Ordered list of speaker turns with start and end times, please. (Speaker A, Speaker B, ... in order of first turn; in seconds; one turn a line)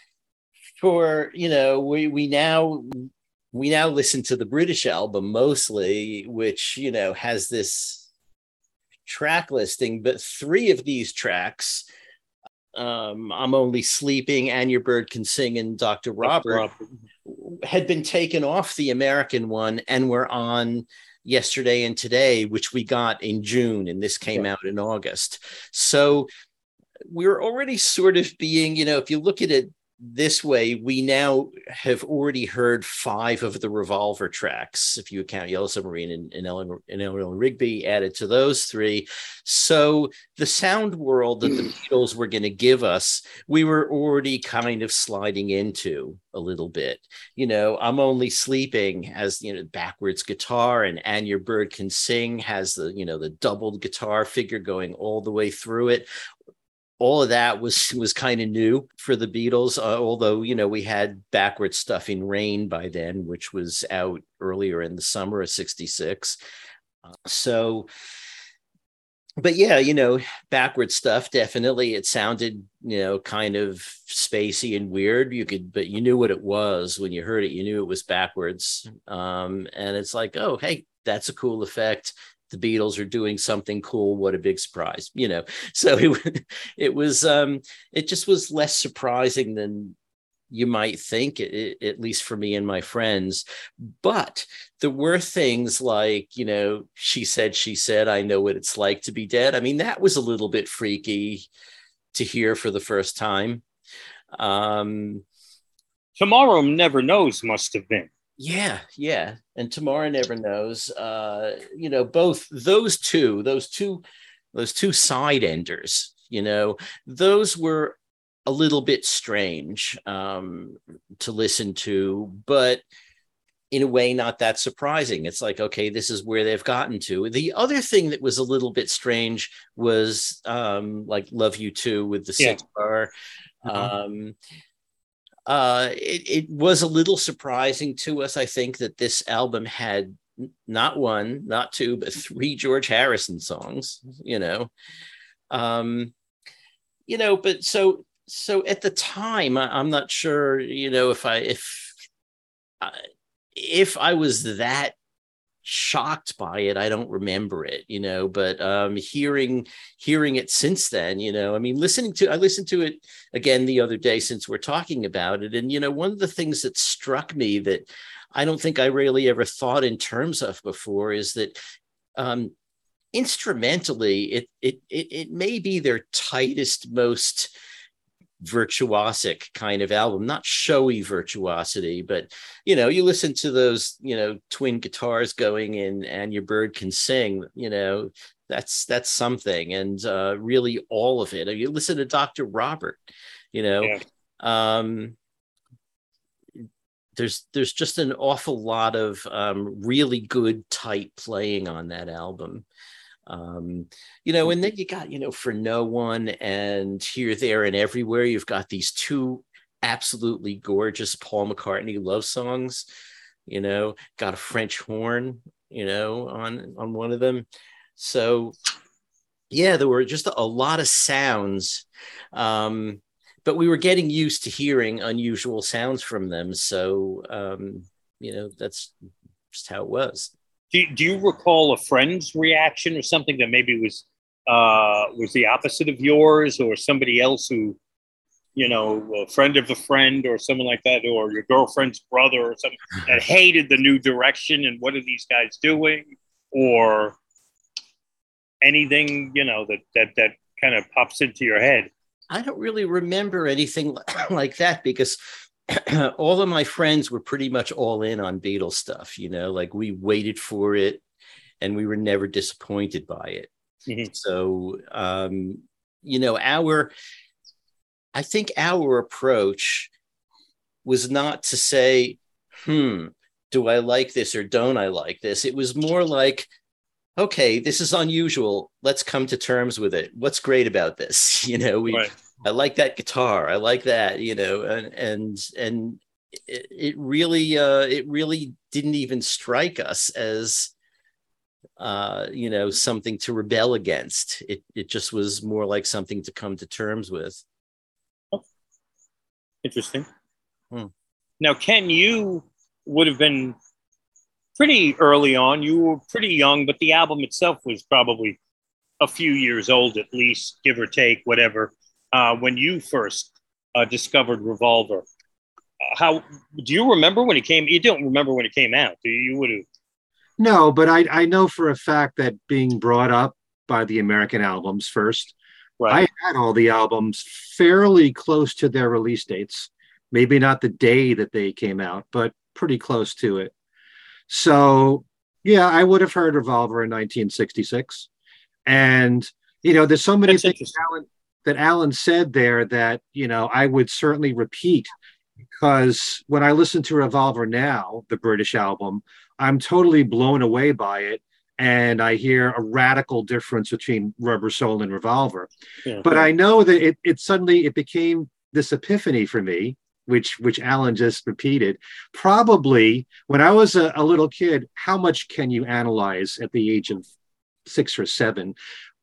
Speaker A: 0.8-8.1
Speaker A: 9.1-11.8
Speaker A: 12.7-16.6
Speaker B: 16.2-16.9
Speaker A: 17.3-26.3
Speaker A: 27.1-56.1
Speaker A: 57.0-66.4
Speaker A: 67.2-67.9
Speaker A: 69.4-90.0
Speaker A: 90.5-101.5
Speaker A: 102.1-103.6
Speaker A: 104.4-105.2
Speaker B: 106.2-108.1
Speaker A: 108.4-114.0
Speaker A: 114.5-122.8
Speaker A: 123.7-133.1
Speaker A: 133.7-134.3
Speaker A: 135.5-144.7
Speaker A: 145.5-146.1
Speaker A: 147.1-152.0
Speaker A: 153.6-154.9
Speaker A: 155.6-171.6
Speaker A: 172.2-172.5
Speaker A: 173.1-177.5
Speaker A: 178.4-193.0
Speaker A: 193.5-195.2
Speaker A: 197.2-202.7
Speaker A: 203.3-212.8
Speaker A: 213.5-217.5
Speaker A: 218.0-218.6
Speaker A: 219.5-228.9
Speaker A: 229.5-230.3
Speaker B: 230.7-237.8
Speaker B: 238.6-247.2
Speaker B: 248.6-251.9
Speaker A: 252.3-261.0
Speaker A: 261.6-263.5
Speaker B: 263.9-264.1
Speaker A: 264.1-266.9
Speaker A: 268.1-269.9
Speaker A: 270.9-276.5
Speaker A: 277.2-290.7
Speaker A: 291.8-297.4
Speaker B: 299.6-300.1
Speaker B: 301.4-303.6
Speaker B: 304.6-308.4
Speaker B: 309.0-315.1
Speaker B: 315.8-319.6
Speaker C: 320.4-325.4
Speaker B: 325.8-326.1
Speaker C: 325.9-333.5
Speaker C: 334.3-338.1
Speaker C: 338.7-344.9
Speaker B: 340.3-340.8
Speaker C: 345.6-355.5
Speaker B: 355.9-356.1
Speaker C: 356.0-367.1
Speaker C: 367.7-368.6